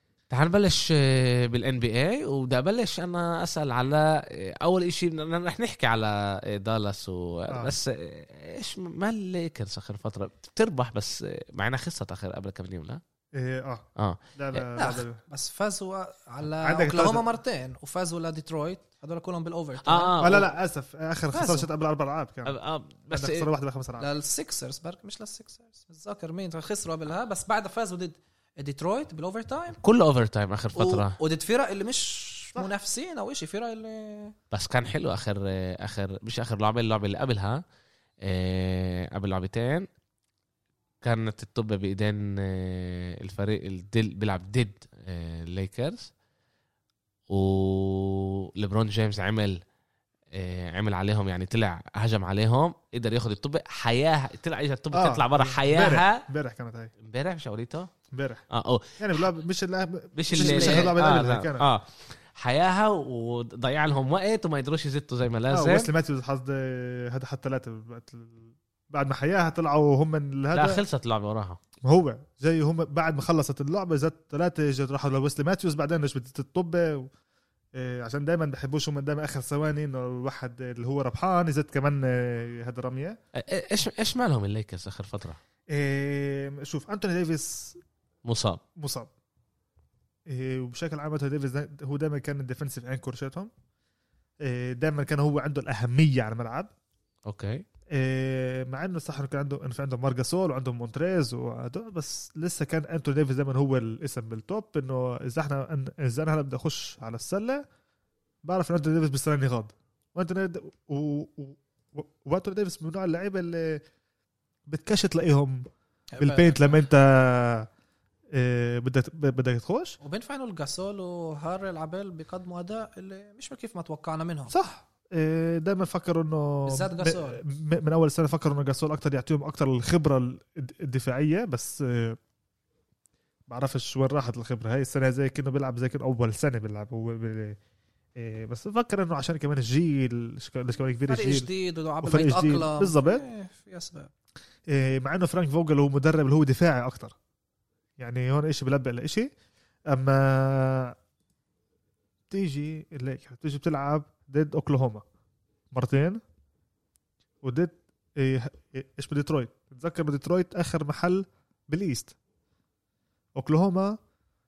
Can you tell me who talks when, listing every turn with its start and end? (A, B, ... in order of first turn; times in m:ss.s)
0:00.3-0:13.0 A
0:13.4-0:15.2 B
0:14.0-0:14.7 A
0:14.8-0:20.3 C
0:16.6-0:17.3 B
0:19.9-0:20.5 A
0:20.2-0:22.6 B
0:21.3-0:21.7 C
0:22.5-0:23.5 A
0:23.1-0:24.1 B
0:24.0-0:29.8 C
0:29.8-0:31.2 A
0:30.8-0:34.4 C
0:34.5-0:37.6 A
0:38.2-0:39.9 A
0:41.0-0:46.1 A
0:47.3-0:49.6 A
0:50.3-0:56.2 A
0:54.9-0:56.9 B
0:57.0-0:57.9 A
0:58.1-0:58.4 B
0:58.5-0:59.3 A
0:59.0-1:01.7 B
1:00.2-1:05.9 A
1:00.3-1:00.9 C
1:05.5-1:10.8 B
1:10.5-1:11.6 A
1:11.8-1:17.1 B
1:17.8-1:23.2 B
1:23.4-1:25.4 A
1:25.7-1:27.8 B
1:28.2-1:28.6 A
1:28.8-1:29.1 B
1:30.3-1:33.5 B
1:34.4-1:36.7 B
1:37.3-1:37.6 A
1:37.9-1:47.7 B
1:48.4-1:53.8 B
1:54.7-1:55.7 B
1:56.2-1:56.8 C
1:56.2-1:57.7 B
1:58.3-2:00.0 B
2:00.0-2:04.5 C
2:04.5-2:12.2 B
2:06.6-2:07.4 C
2:13.5-2:17.6 B
2:18.2-2:21.5 B
2:21.1-2:24.1 C
2:22.0-2:23.2 B
2:24.7-2:27.2 B
2:28.0-2:29.3 B
2:29.9-2:31.0 B
2:32.3-2:35.0 B
2:35.7-2:36.2 B
2:37.4-2:42.1 B
2:43.4-2:44.0 B